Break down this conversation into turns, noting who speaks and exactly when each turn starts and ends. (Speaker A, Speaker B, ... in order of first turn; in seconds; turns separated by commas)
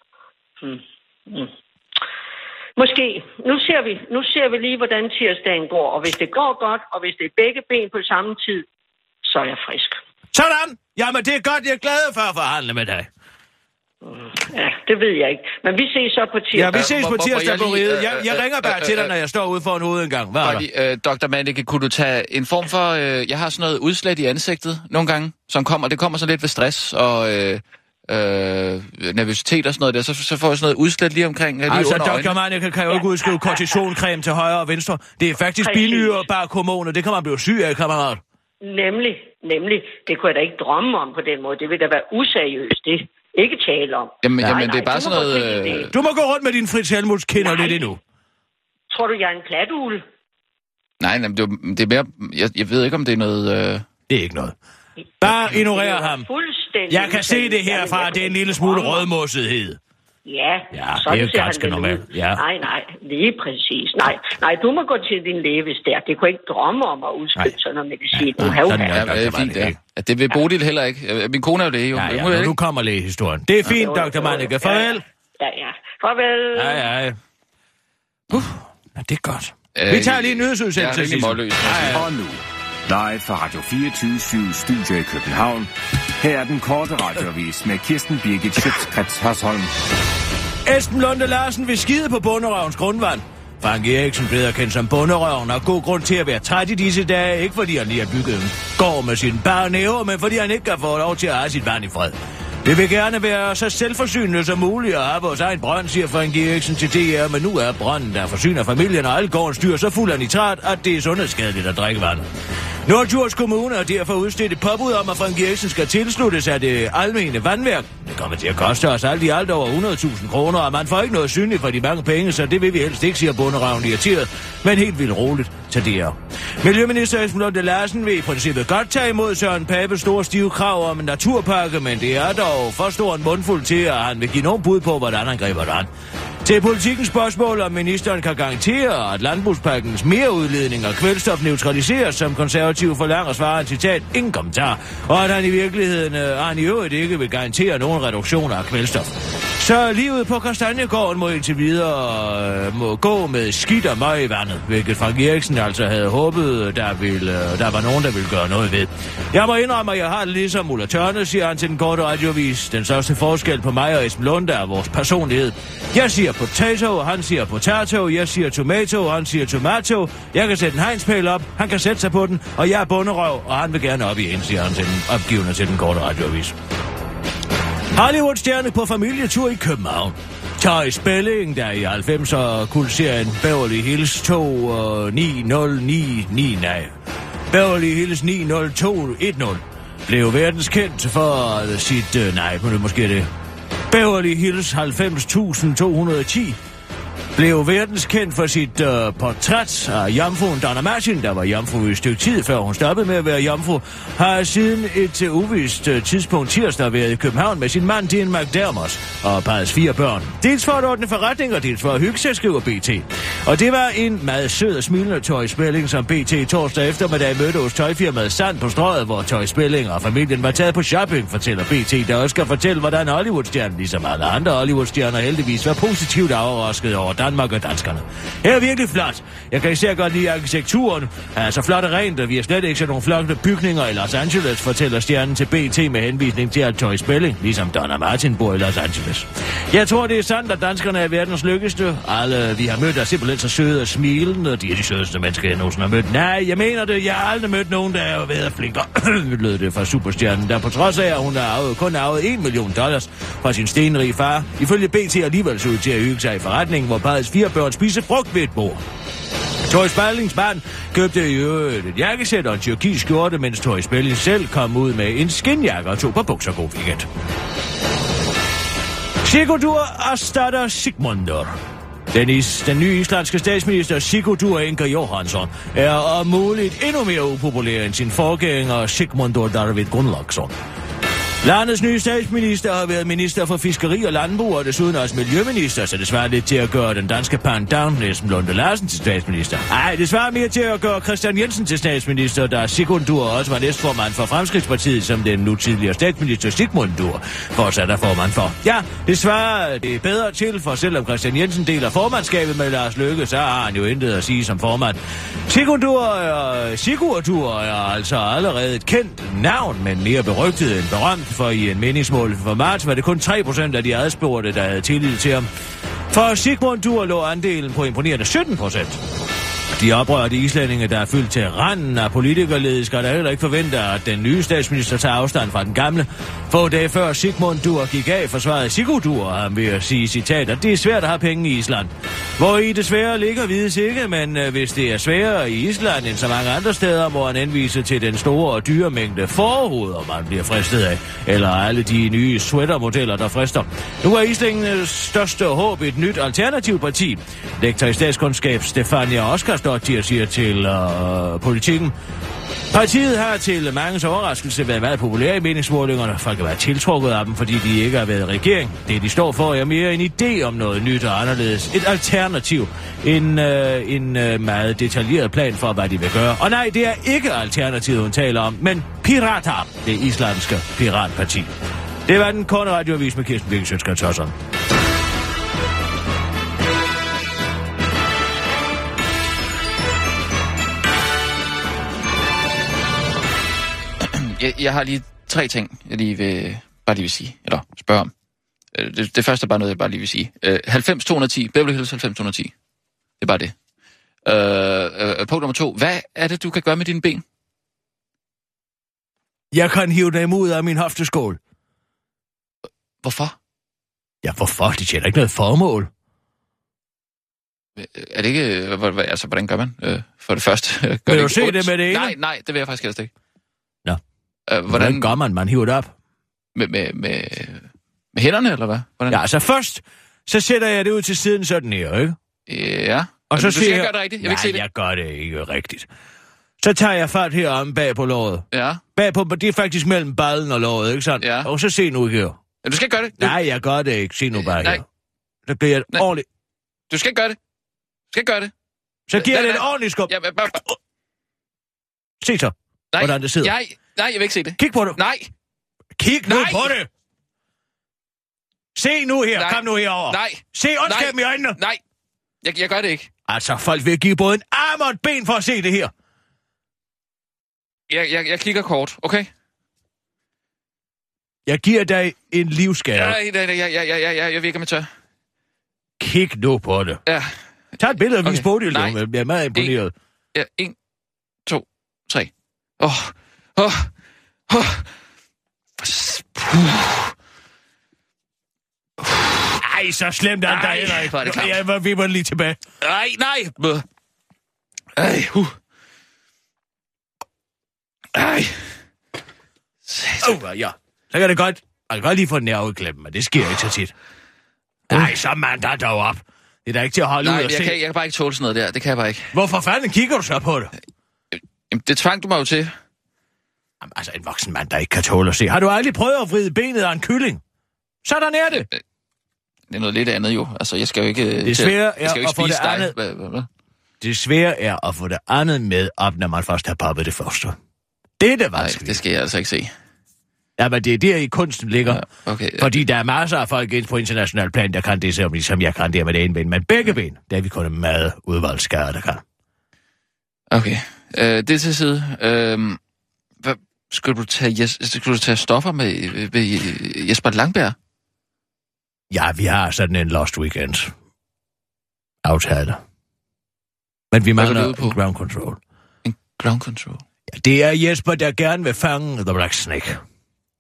Speaker A: 0.6-1.5, Speaker A: 2.8-8.7, Speaker A: 9.2-10.0, Speaker B: 10.3-13.1, Speaker A: 14.0-16.8, Speaker B: 16.5-20.6, Speaker C: 16.7-19.1, Speaker C: 20.4-32.3, Speaker B: 31.7-38.2, Speaker A: 32.9-33.8, Speaker A: 35.6-36.2, Speaker A: 38.6-45.9, Speaker C: 44.2-45.9, Speaker B: 45.9-48.0, Speaker A: 47.4-47.9, Speaker A: 48.9-50.0, Speaker C: 51.0-53.9, Speaker B: 54.1-54.5, Speaker B: 55.2-56.3, Speaker A: 55.2-59.1, Speaker B: 56.9-59.8, Speaker A: 60.3-69.0, Speaker B: 60.7-62.4, Speaker B: 68.1-69.8, Speaker C: 68.4-72.6, Speaker B: 72.0-75.0, Speaker A: 73.7-76.9, Speaker B: 76.5-77.2, Speaker B: 78.3-82.1, Speaker C: 79.8-82.0, Speaker D: 81.9-89.7, Speaker B: 90.7-112.3, Speaker B: 112.9-135.9, Speaker B: 136.4-176.6, Speaker B: 177.9-186.9, Speaker B: 187.5-193.3, Speaker B: 193.9-196.6, Speaker B: 197.3-258.8, Speaker B: 259.6-267.1, Speaker B: 269.2-271.6, Speaker B: 272.1-280.5, Speaker B: 281.4-315.5, Speaker B: 316.1-319.0, Speaker B: 319.7-351.9, Speaker B: 352.7-371.5, Speaker B: 372.1-374.3, Speaker C: 384.0-388.1, Speaker C: 388.7-392.5, Speaker C: 393.2-393.5, Speaker C: 394.2-397.2, Speaker B: 399.5-401.4, Speaker C: 403.0-403.4, Speaker B: 404.2-405.9, Speaker C: 407.8-413.1, Speaker B: 411.1-412.1, Speaker C: 414.5-415.1, Speaker B: 414.7-415.9, Speaker C: 416.6-419.2, Speaker B: 419.1-422.2, Speaker C: 422.5-424.6, Speaker B: 423.3-425.9, Speaker B: 426.6-428.4, Speaker C: 428.5-428.8, Speaker B: 429.0-432.4, Speaker C: 431.2-431.5, Speaker C: 432.6-433.4, Speaker B: 433.2-434.9, Speaker C: 434.4-434.8, Speaker B: 435.5-436.3, Speaker C: 436.9-437.4, Speaker C: 438.1-438.5, Speaker B: 439.1-440.1, Speaker C: 439.1-440.6, Speaker B: 442.2-443.5, Speaker C: 442.9-445.3, Speaker B: 444.6-445.0, Speaker B: 446.0-446.9, Speaker C: 446.3-446.7, Speaker B: 448.8-451.6, Speaker C: 449.4-451.8, Speaker C: 452.4-453.1, Speaker B: 453.3-455.9, Speaker C: 457.9-459.3, Speaker B: 461.5-463.2, Speaker C: 462.9-464.9, Speaker B: 466.0-467.0, Speaker C: 467.1-467.3, Speaker B: 467.8-469.9, Speaker C: 468.2-469.0, Speaker C: 470.3-470.8, Speaker C: 471.5-473.9, Speaker C: 474.5-474.9, Speaker C: 475.8-477.1, Speaker C: 479.1-479.5, Speaker B: 479.5-482.6, Speaker C: 480.5-481.6, Speaker C: 482.8-483.9, Speaker C: 485.0-485.6, Speaker C: 488.1-488.6, Speaker C: 489.9-490.3, Speaker B: 490.2-493.9, Speaker B: 494.9-497.8, Speaker C: 497.2-499.3, Speaker B: 499.3-500.7, Speaker C: 501.7-502.7, Speaker B: 503.8-507.4, Speaker B: 508.0-508.7, Speaker C: 509.7-513.5, Speaker B: 511.4-513.0, Speaker B: 514.0-517.5, Speaker B: 518.2-519.0, Speaker C: 518.6-519.7, Speaker B: 520.6-522.0, Speaker C: 521.9-522.8, Speaker B: 522.6-529.2, Speaker C: 530.5-532.8, Speaker C: 533.4-537.8, Speaker B: 539.1-540.9, Speaker B: 542.2-542.8, Speaker B: 544.1-545.6, Speaker C: 544.4-545.0, Speaker C: 546.0-547.0, Speaker B: 547.3-550.0